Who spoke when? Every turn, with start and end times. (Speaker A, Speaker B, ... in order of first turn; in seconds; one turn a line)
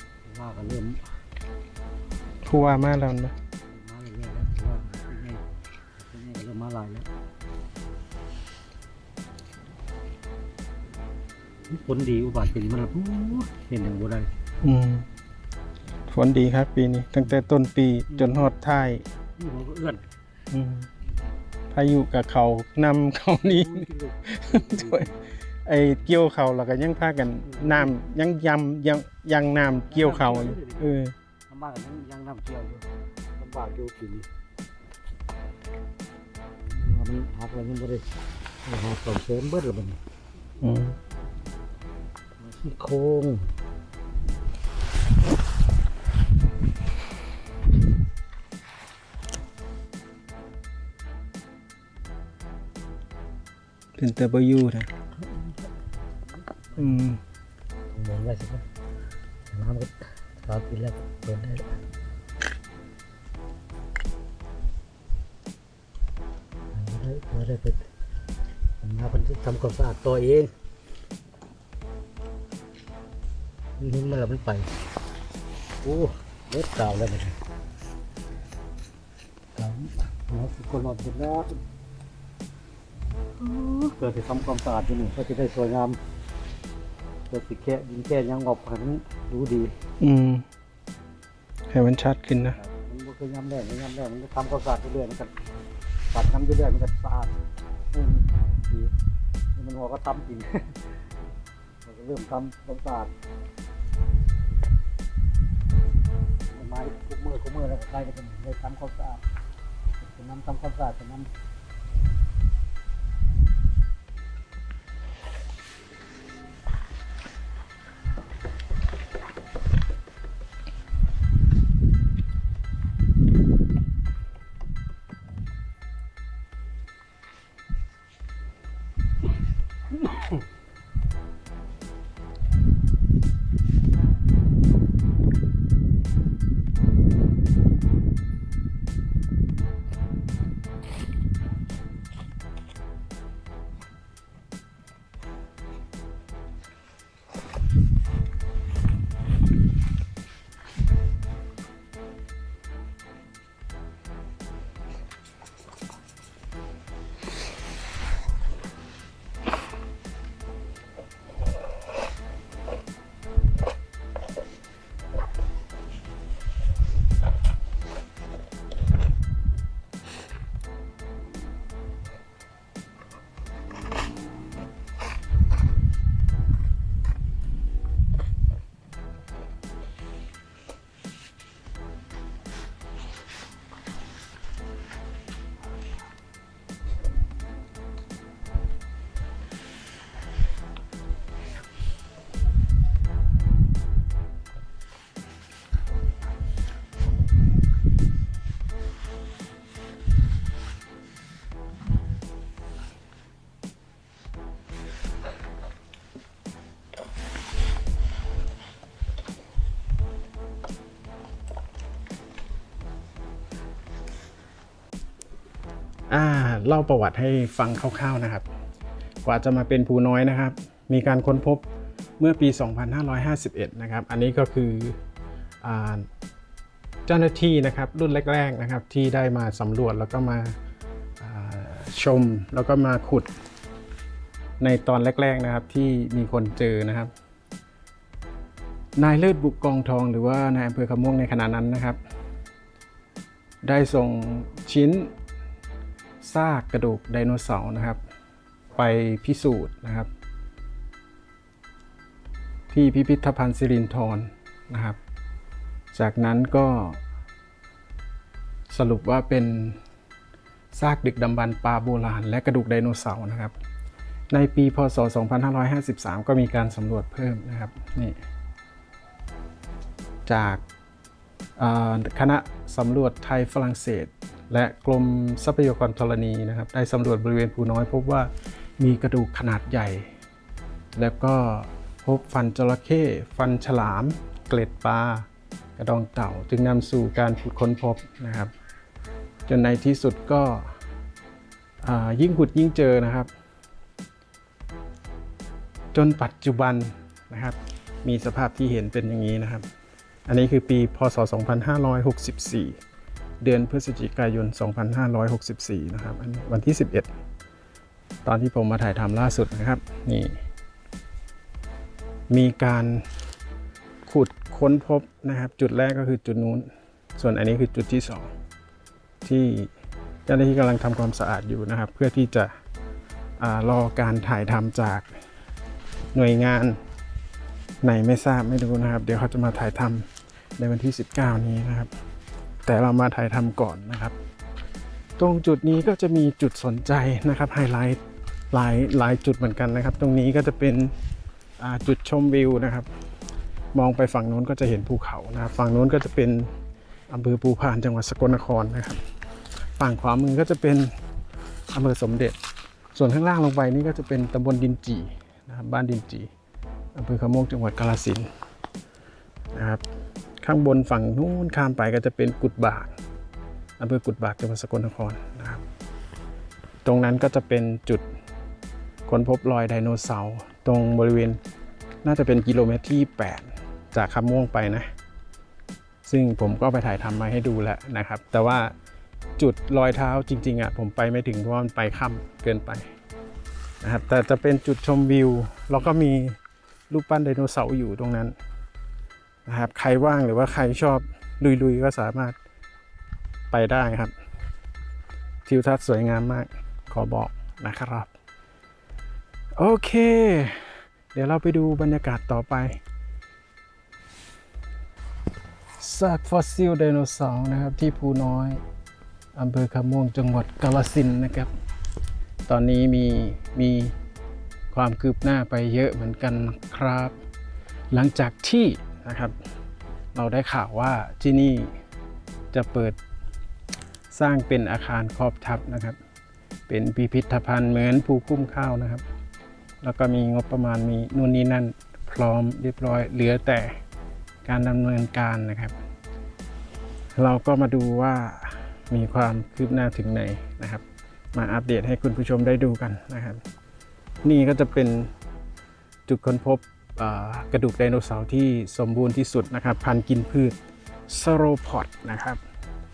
Speaker A: 0.2-1.0
Speaker B: 2.4-3.3
Speaker A: 3.7-5.4
Speaker A: 6.0-7.1
Speaker A: 11.7-14.3
Speaker B: 14.6-15.1
Speaker B: 16.1-19.0
Speaker A: 18.1-18.4
Speaker A: 19.4-20.0
Speaker B: 20.5-20.9
Speaker B: 21.7-25.1
Speaker A: 23.4-25.2
Speaker B: 25.6-31.1
Speaker A: 27.4-27.9
Speaker A: 29.9-30.9
Speaker A: 31.5-32.9
Speaker A: 33.4-34.3
Speaker A: 36.7-38.0
Speaker A: 38.6-40.0
Speaker B: 40.6-41.0
Speaker A: 42.4-43.5
Speaker B: 54.0-54.9
Speaker A: 55.1-55.7
Speaker A: 56.3-57.0
Speaker B: 56.8-57.2
Speaker A: 57.9-58.6
Speaker A: 59.5-61.8
Speaker A: 66.7-67.9
Speaker A: 68.8-70.5
Speaker A: 73.8-74.7
Speaker A: 75.8-77.4
Speaker A: 79.5-81.6
Speaker A: 83.4-86.0
Speaker A: 87.3-89.7
Speaker B: 90.0-90.5
Speaker B: 91.7-92.6
Speaker A: 92.5-95.3
Speaker A: 96.1-97.3
Speaker A: 97.9-98.9
Speaker A: 99.5-100.8
Speaker A: 101.8-103.1
Speaker A: 106.5-109.2
Speaker A: 110.0-111.3
Speaker B: 216.1-218.4
Speaker B: 219.2-221.6
Speaker B: 222.2-225.0
Speaker B: 225.6-226.1
Speaker B: 227.1-230.6
Speaker B: 231.2-233.3
Speaker B: 234.6-237.1
Speaker B: 239.0-242.0
Speaker B: 243.6-245.1
Speaker B: 246.2-248.0
Speaker B: 248.7-250.1
Speaker B: 252.7-255.0
Speaker B: 255.9-257.0
Speaker B: 258.7-259.8
Speaker B: 260.7-263.5
Speaker B: 264.3-268.2
Speaker B: 270.2-270.6
Speaker B: 271.6-280.1
Speaker B: 280.9-288.5
Speaker B: 289.5-290.8
Speaker B: 291.8-293.3
Speaker B: 295.9-299.6
Speaker B: 300.3-302.8
Speaker B: 303.4-307.1
Speaker B: 308.2-310.4
Speaker B: 312.3-313.1
Speaker B: 314.0-318.3
Speaker B: 319.2-319.7
Speaker B: 320.2-322.5
Speaker B: 323.4-325.1
Speaker B: 326.1-326.8
Speaker B: 327.8-331.9
Speaker B: 332.6-334.1
Speaker B: 335.2-340.9
Speaker B: 341.6-342.9
Speaker B: 343.7-346.6
Speaker B: 347.1-349.0
Speaker B: 349.8-350.9
Speaker B: 351.7-352.4
Speaker B: 352.9-356.3
Speaker B: 356.9-358.3
Speaker B: 359.5-359.8
Speaker B: 360.4-362.9
Speaker B: 363.8-365.6
Speaker B: 366.8-368.0
Speaker B: 369.1-371.4
Speaker B: 372.0-374.9
Speaker B: 376.0-378.7
Speaker B: 379.4-382.9
Speaker B: 383.8-386.4
Speaker B: 386.9-388.4
Speaker B: 389.4-392.4
Speaker B: 393.5-394.1
Speaker B: 395.4-398.1
Speaker B: 399.6-402.8
Speaker B: 405.8-408.6
Speaker B: 409.3-411.5
Speaker B: 412.5-413.9
Speaker B: 414.7-417.1
Speaker B: 417.9-419.3
Speaker B: 420.1-421.8
Speaker B: 422.5-423.0
Speaker B: 424.1-426.0
Speaker B: 426.7-429.0
Speaker B: 429.8-433.8
Speaker B: 434.4-435.8
Speaker B: 437.1-443.4
Speaker B: 444.2-445.1
Speaker B: 446.1-450.6
Speaker B: 451.1-452.4